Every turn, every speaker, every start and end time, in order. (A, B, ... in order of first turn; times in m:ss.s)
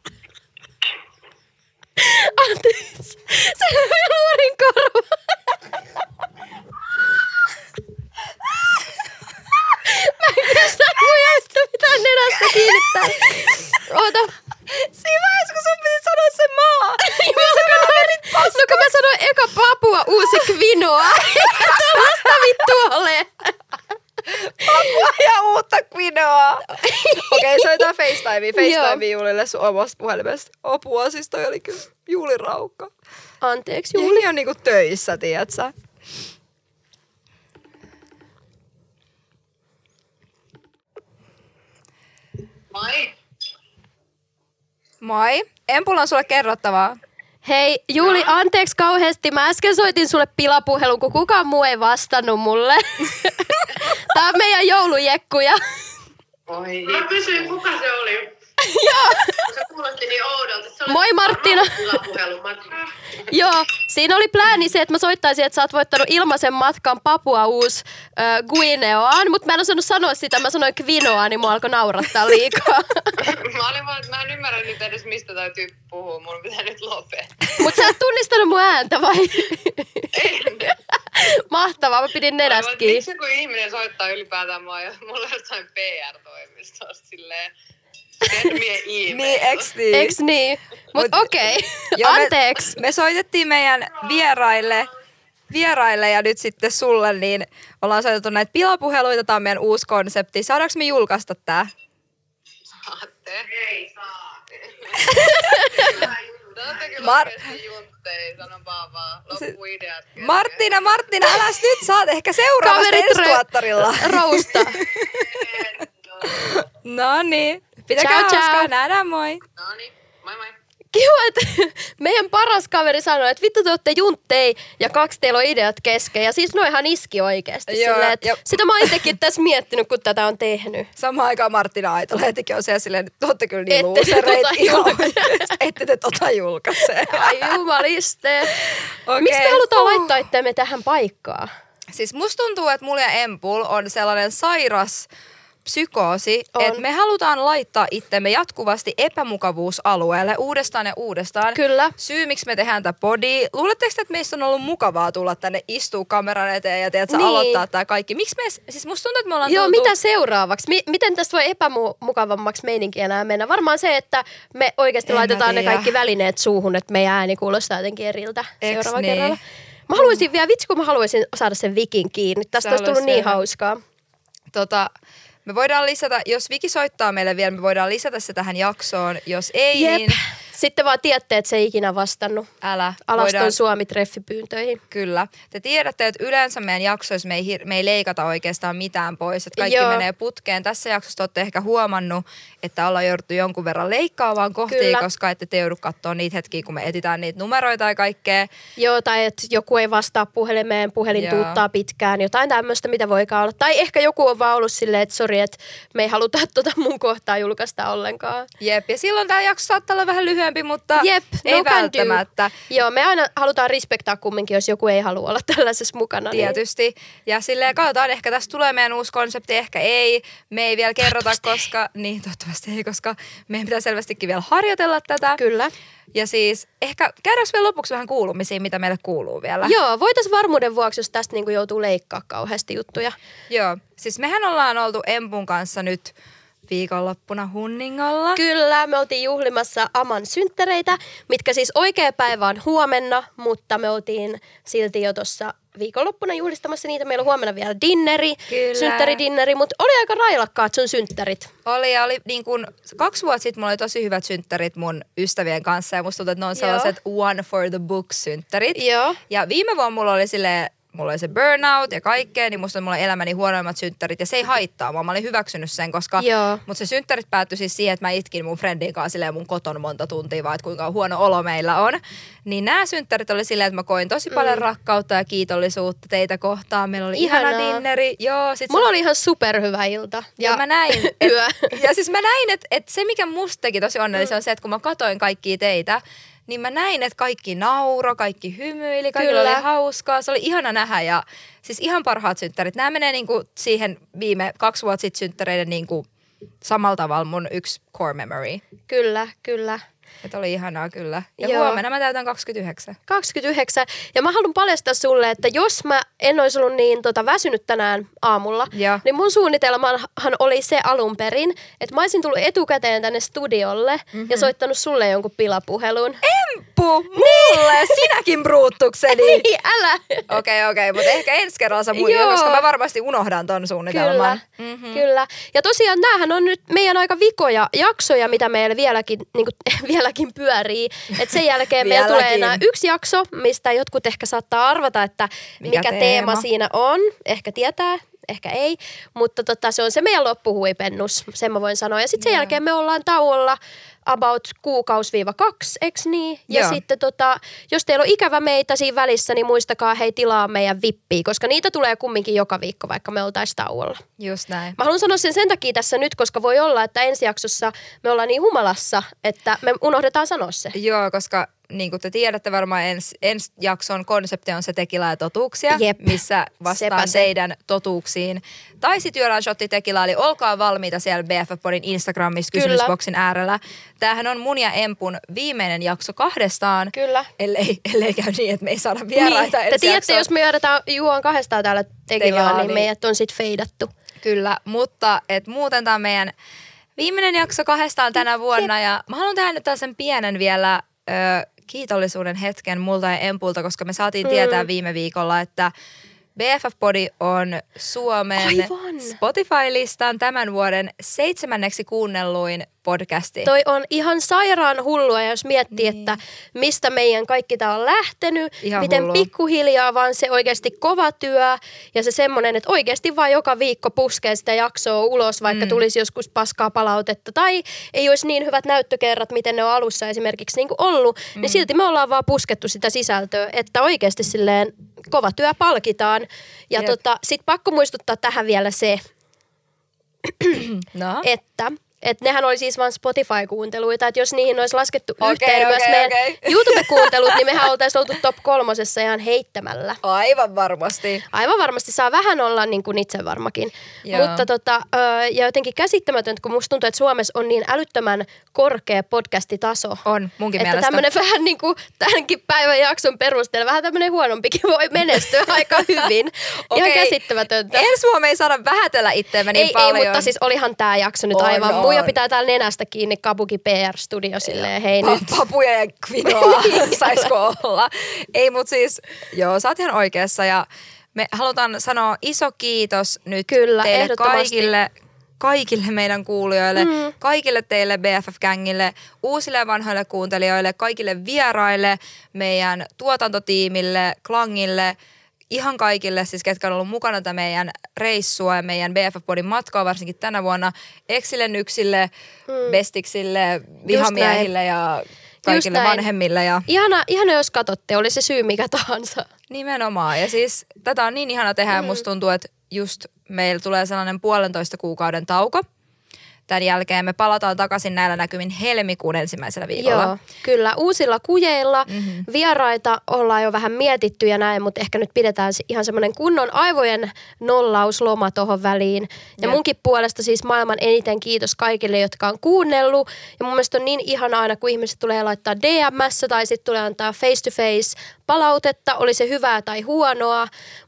0:02.0-0:05.2 A
0:09.8-0:14.3 A
0:12.4-0:13.1 B
0:14.7-0:18.9 B
0:17.0-0:23.5 A
0:21.4-0:22.2 B
0:24.3-0:32.9 B
0:26.7-0:27.9 A
0:28.5-0:29.0 A
0:33.4-0:34.2 A
0:33.9-0:35.7 B
0:42.7-0:43.1 C
0:45.0-0:47.0 B
0:47.4-0:55.6 A
0:48.0-0:48.3 C
0:56.5-0:58.3 C
0:58.6-0:59.3 A
0:59.5-1:02.7 C
1:00.8-1:02.0 A
1:03.3-1:13.3 A
1:13.2-1:17.5 C
1:17.6-1:20.1 A
1:20.1-1:20.7 C
1:20.6-1:23.0 A
1:22.4-1:27.5 C
1:28.2-1:29.7 C
1:29.1-1:30.2 B
1:29.9-1:32.8 A
1:30.9-1:34.9 B
1:35.5-1:41.7 B
1:42.7-1:43.9 C
1:44.6-1:50.7 C
1:45.3-1:46.0 A
1:47.0-1:47.5 B
1:50.2-1:55.2 B
1:52.6-1:54.8 A
1:55.1-1:56.5 C
1:56.2-1:59.4 B
1:58.0-1:58.7 A
1:59.6-2:00.5 C
2:00.9-2:10.9 A
2:07.7-2:09.1 B
2:11.0-2:17.6 B
2:13.7-2:15.5 A
2:17.1-2:18.5 A
2:19.1-2:20.2 B
2:19.2-2:21.5 A
2:21.9-2:25.1 B
2:25.6-2:39.9 B
2:26.5-2:26.8 A
2:31.5-2:31.9 A
2:37.1-2:37.6 A
2:39.4-2:53.8 A
2:45.1-2:45.9 B
2:48.6-2:49.4 B
2:52.6-2:53.4 B
2:54.5-2:54.9 B
2:55.4-3:00.2 B
2:59.7-3:02.5 A
3:02.6-3:03.6 B
3:03.1-3:04.8 A
3:04.9-3:18.5 B
3:09.6-3:10.0 A
3:14.7-3:15.0 A
3:18.8-3:28.5 A
3:21.1-3:21.6 B
3:28.6-3:32.5 B
3:31.0-3:36.6 A
3:36.3-3:45.4 B
3:45.4-3:45.7 A
3:46.1-3:49.7 B
3:49.6-3:53.1 A
3:53.5-3:56.1 B
3:56.7-3:58.4 B
3:58.3-4:11.5 A
4:08.5-4:09.2 B
4:11.6-4:38.9 B
4:16.6-4:16.9 A
4:18.7-4:19.2 A
4:26.2-4:26.6 A
4:34.3-4:34.6 A
4:37.1-4:37.8 A
4:38.7-4:41.7 A
4:40.4-4:56.0 B
4:49.2-4:49.6 A
4:56.6-4:58.6 B
4:58.9-4:59.8 A
5:00.2-5:03.0 B
5:01.4-5:01.8 A
5:03.1-5:16.2 A
5:08.7-5:09.0 B
5:14.1-5:14.5 B
5:16.2-5:19.5 B
5:17.2-5:18.1 A
5:19.1-5:20.3 A
5:20.3-5:25.0 B
5:21.9-5:22.6 A
5:23.9-5:24.4 A
5:24.9-5:54.0 A
5:31.8-5:32.6 B
5:35.6-5:36.4 B
5:42.2-5:42.6 B
5:46.5-5:46.8 B
5:54.2-5:54.8 B
5:54.8-6:00.7 A
6:00.7-6:20.3 B
6:05.7-6:07.3 A
6:12.5-6:12.9 A
6:16.9-6:17.3 A
6:19.2-6:23.9 A
6:22.2-6:22.9 B
6:24.2-6:26.3 B
6:27.0-6:35.7 B
6:34.2-6:34.7 A
6:36.3-6:43.5 B
6:38.4-6:39.2 A
6:43.4-7:09.0 A
6:45.7-6:46.2 B
6:48.6-6:49.3 B
6:55.5-6:55.8 B
7:01.4-7:01.6 B
7:10.7-7:11.2 B
7:11.2-7:20.0 A
7:15.2-7:17.5 B
7:20.0-7:21.2 B
7:21.3-7:30.0 A
7:24.0-7:24.5 B
7:30.0-7:31.0 B
7:30.6-7:37.9 A
7:36.7-7:37.2 B
7:37.7-7:40.3 B
7:39.5-7:45.3 A
7:41.3-7:42.1 B
7:44.4-8:05.0 B
7:46.3-7:47.3 A
7:53.5-7:54.7 A
7:56.8-7:57.1 A
8:05.5-8:12.1 B
8:12.5-8:12.8 A
8:12.7-8:16.7 B
8:13.9-8:14.5 A
8:15.4-8:16.0 A
8:16.7-8:19.3 A
8:19.5-8:25.6 B
8:21.7-8:22.0 A
8:26.5-8:30.2 B
8:29.8-8:50.5 A
8:31.9-8:32.2 B